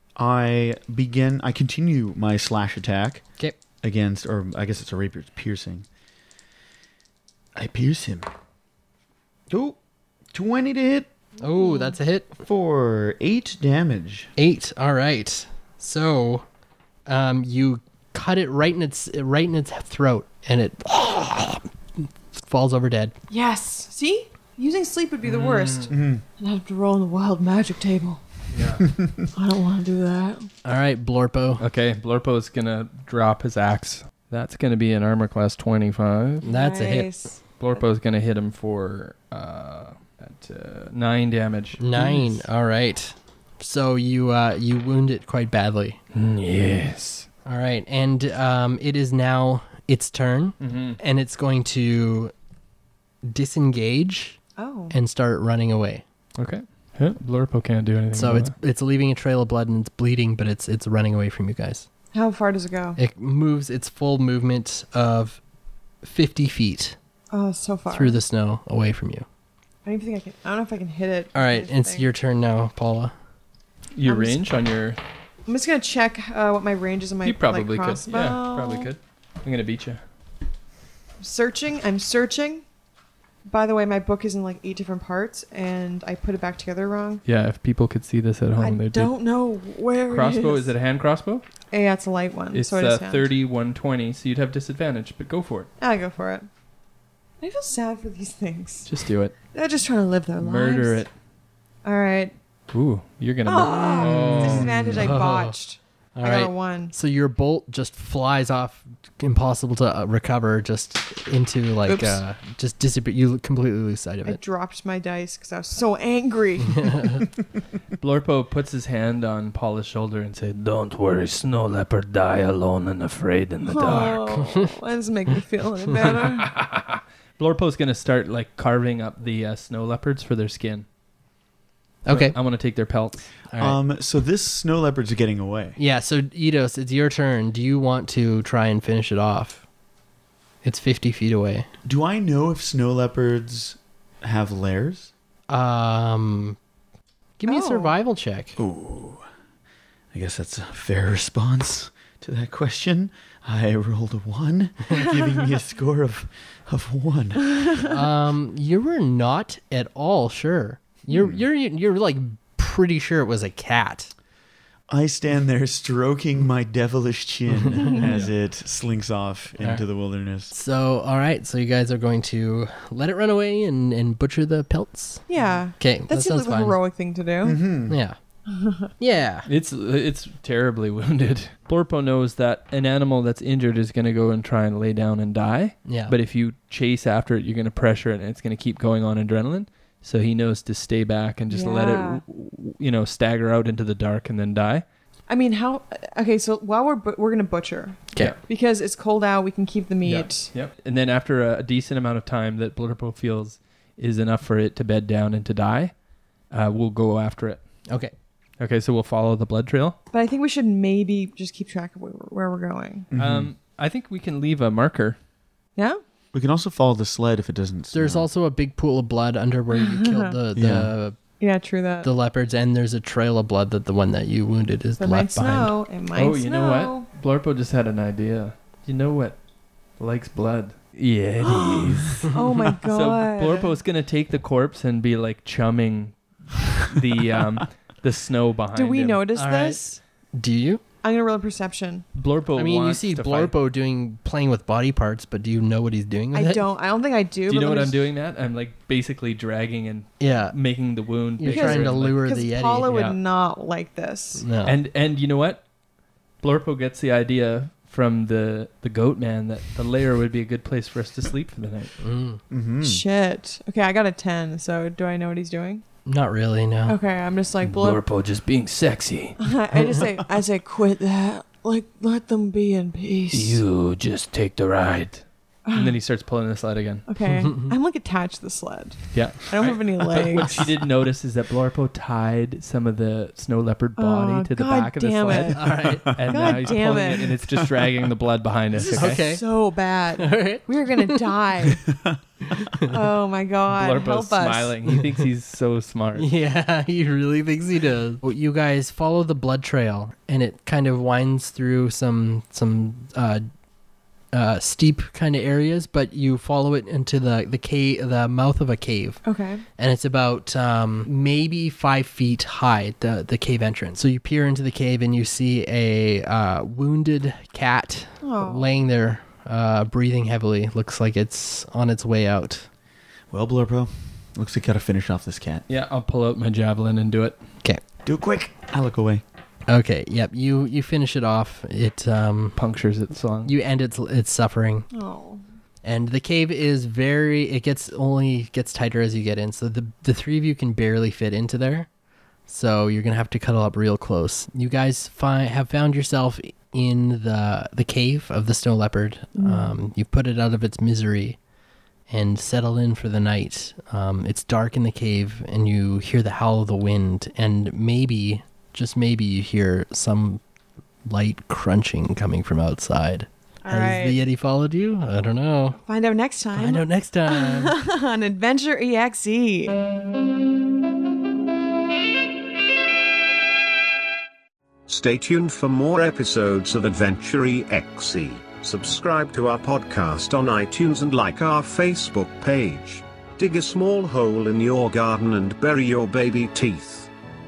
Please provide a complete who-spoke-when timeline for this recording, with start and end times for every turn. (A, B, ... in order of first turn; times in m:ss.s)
0:00.2-0:03.2 A
0:03.8-0:05.9 A
0:07.6-0:08.3 A
0:09.5-0:09.8 A
0:10.3-0:11.2 A
0:11.4-0:12.4 B
0:12.4-0:14.3 A
0:14.4-0:16.5 B
0:17.1-0:23.2 B
0:23.3-0:28.2 C
0:25.2-0:25.9 D
0:25.9-0:26.2 A
0:28.5-0:28.8 D
0:29.4-0:30.5 C
0:30.6-0:31.6 B
0:31.6-0:36.5 D
0:36.4-0:37.1 B
0:36.4-0:37.4 C
0:37.6-0:42.4 D
0:41.8-0:46.0 B
0:46.1-0:47.3 D
0:47.4-0:52.3 B
0:50.6-0:51.0 D
0:53.2-0:54.4 B
0:54.6-0:55.0 C
0:54.9-0:56.0 B
0:56.4-0:58.5 D
0:58.1-1:01.9 B
1:02.1-1:03.0 C
1:03.0-1:05.4 B
1:06.0-1:07.0 B
1:07.3-1:08.2 C
1:07.9-1:09.3 B
1:09.8-1:12.1 C
1:11.3-1:13.1 B
1:14.0-1:15.0 D
1:14.0-1:14.4 C
1:15.5-1:18.9 C
1:17.2-1:20.0 D
1:21.2-1:22.6 C
1:23.5-1:27.2 C
1:27.3-1:29.1 D
1:28.6-1:30.7 C
1:30.1-1:31.4 D
1:31.7-1:33.3 C
1:32.5-1:35.7 D
1:35.8-1:36.5 C
1:37.4-1:38.9 C
1:38.9-1:39.4 D
1:39.4-1:41.0 C
1:40.4-1:41.1 D
1:41.8-1:42.3 C
1:42.7-1:45.0 D
1:43.5-1:46.9 C
1:44.0-1:45.6 B
1:46.2-1:54.4 B
1:51.9-1:52.2 C
1:54.2-1:57.1 C
1:56.7-1:57.2 B
1:58.0-2:04.4 D
2:03.7-2:06.5 C
2:06.0-2:10.9 D
2:12.0-2:12.4 B
2:12.1-2:13.3 D
2:13.5-2:13.8 B
2:13.6-2:15.8 A
2:15.8-2:19.6 B
2:20.6-2:21.7 B
2:21.8-2:25.1 A
2:25.5-2:26.6 B
2:27.4-2:28.6 B
2:27.5-2:27.9 C
2:28.6-2:29.2 A
2:30.1-2:37.8 A
2:37.8-2:44.1 B
2:41.1-2:41.4 A
2:44.9-2:50.5 A
2:47.7-2:48.3 B
2:50.5-2:55.2 B
2:55.3-2:57.6 C
2:55.8-2:56.8 B
2:57.4-2:58.0 A
2:57.9-2:58.2 B
2:58.5-2:58.9 C
2:59.0-2:59.5 B
2:59.5-3:14.8 D
3:05.8-3:06.2 B
3:11.5-3:12.2 C
3:15.3-3:20.5 C
3:20.1-3:25.9 D
3:26.5-3:27.6 D
3:28.6-3:30.0 D
3:30.1-3:33.1 C
3:33.1-3:33.5 A
3:33.1-3:35.2 D
3:35.8-3:36.0 C
3:36.3-3:38.3 A
3:37.9-3:41.2 B
3:39.7-3:40.3 C
3:40.6-3:40.9 A
3:41.4-3:42.1 C
3:42.0-3:45.7 B
3:45.0-3:47.1 C
3:46.1-3:49.4 D
3:50.0-3:56.2 D
3:51.4-3:53.7 C
3:56.7-3:59.2 D
3:58.8-4:00.0 C
3:59.4-4:00.8 B
4:01.0-4:02.0 C
4:02.2-4:03.5 D
4:02.6-4:06.7 B
4:06.3-4:08.0 C
4:07.5-4:12.2 D
4:10.2-4:10.6 B
4:11.4-4:13.0 B
4:11.5-4:14.4 C
4:12.9-4:13.2 D
4:14.4-4:14.8 B
4:14.6-4:15.6 D
4:16.4-4:21.9 D
4:22.0-4:22.4 B
4:22.5-4:23.0 A
4:22.8-4:25.8 C
4:26.1-4:27.0 B
4:26.9-4:28.0 C
4:27.6-4:29.4 D
4:29.4-4:33.6 C
4:33.3-4:37.1 D
4:35.7-4:36.0 C
4:37.1-4:40.6 C
4:37.4-4:37.8 B
4:39.1-4:49.3 D
4:44.0-4:47.4 C
4:45.3-4:47.0 B
4:45.9-4:46.3 A
4:48.8-4:51.8 C
4:48.9-4:49.4 B
4:50.2-4:51.2 B
4:52.6-4:52.9 B
4:52.8-4:54.8 C
4:53.7-4:56.3 D
4:56.2-5:03.4 B
5:04.3-5:09.2 B
5:09.2-5:09.6 C
5:09.8-5:22.7 B
5:18.2-5:18.7 C
5:23.3-5:25.7 A
5:25.7-5:27.4 D
5:28.0-5:29.2 A
5:29.7-5:32.6 B
5:32.6-5:33.5 D
5:33.4-5:34.9 B
5:34.9-5:35.4 C
5:35.8-5:41.9 B
5:42.5-5:51.4 B
5:49.4-5:49.7 C
5:52.1-6:00.4 B
6:01.1-6:05.8 B
6:03.6-6:04.2 C
6:05.9-6:09.8 C
6:06.5-6:07.7 B
6:14.9-6:27.1 E